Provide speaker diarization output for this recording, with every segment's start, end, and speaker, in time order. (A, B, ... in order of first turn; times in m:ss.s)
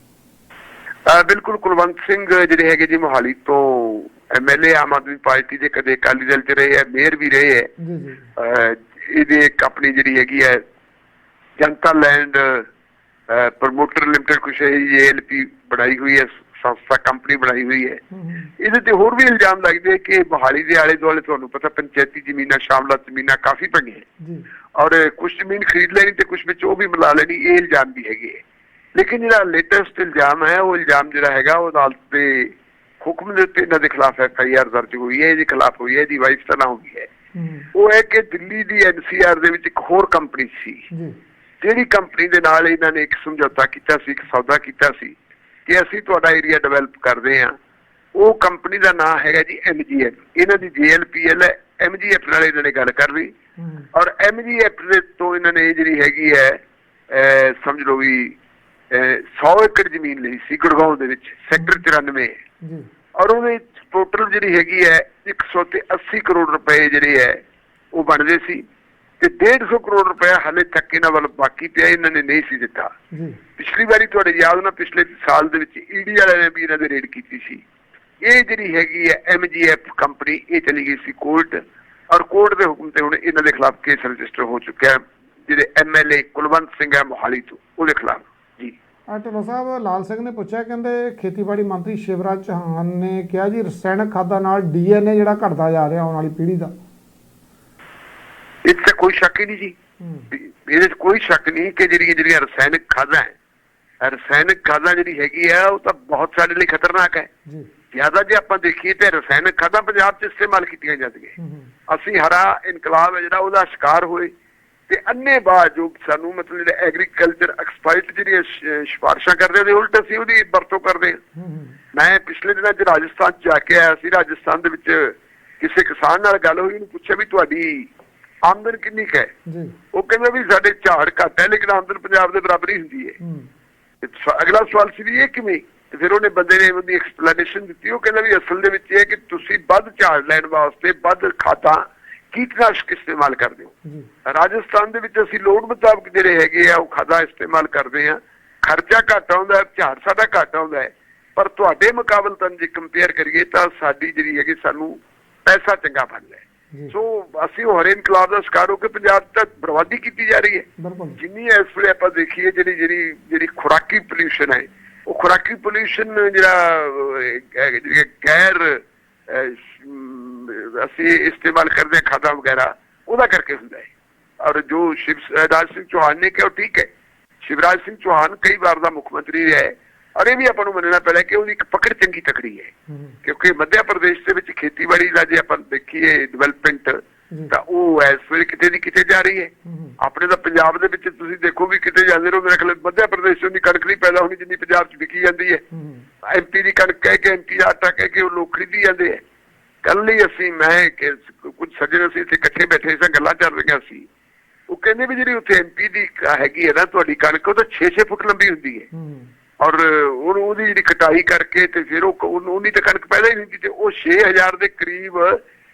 0:01.1-0:07.7 A
0:07.8-0:08.3 B
0:08.4-0:10.6 A
0:11.6-0:12.6 A
0:13.3-0:18.0 A
0:18.1-0:18.5 B
0:18.6-0:24.0 A
0:24.8-0:28.4 A
0:29.0-0:37.1 A
0:37.3-0:37.7 B
0:37.7-0:40.8 A
0:41.6-0:45.2 A
0:45.7-0:47.6 A
0:48.2-0:53.3 A
0:53.6-0:53.9 B
0:53.9-0:56.6 A
0:57.1-0:58.4 A
0:58.9-1:02.4 A
1:03.2-1:07.4 A
1:07.9-1:08.6 A
1:09.2-1:12.9 A
1:13.1-1:13.4 B
1:13.6-1:17.6 A
1:18.2-1:28.7 A
1:29.1-1:36.7 B
1:38.6-1:39.7 A
1:40.0-1:40.3 B
1:40.3-1:43.3 A
1:44.0-1:47.3 A
1:47.9-1:51.3 A
1:51.4-1:51.7 B
1:51.9-1:54.3 A
1:54.9-2:01.2 A
2:01.4-2:01.8 B
2:01.9-2:07.9 A
2:08.4-2:09.3 A
2:09.5-2:09.7 B
2:09.9-2:13.2 A
2:13.2-2:13.5 B
2:14.0-2:23.7 A
2:24.2-2:40.7 A
2:40.8-2:41.2 B
2:41.2-2:53.9 A
2:54.4-2:56.9 A
2:57.4-3:02.7 A
3:02.9-3:03.2 B
3:03.2-3:07.0 A
3:07.5-3:15.6 A
3:09.6-3:09.9 B
3:15.7-3:16.1 B
3:16.2-3:19.2 A
3:19.8-3:24.0 A
3:24.7-3:28.9 A
3:28.9-3:29.3 B
3:29.6-3:35.4 A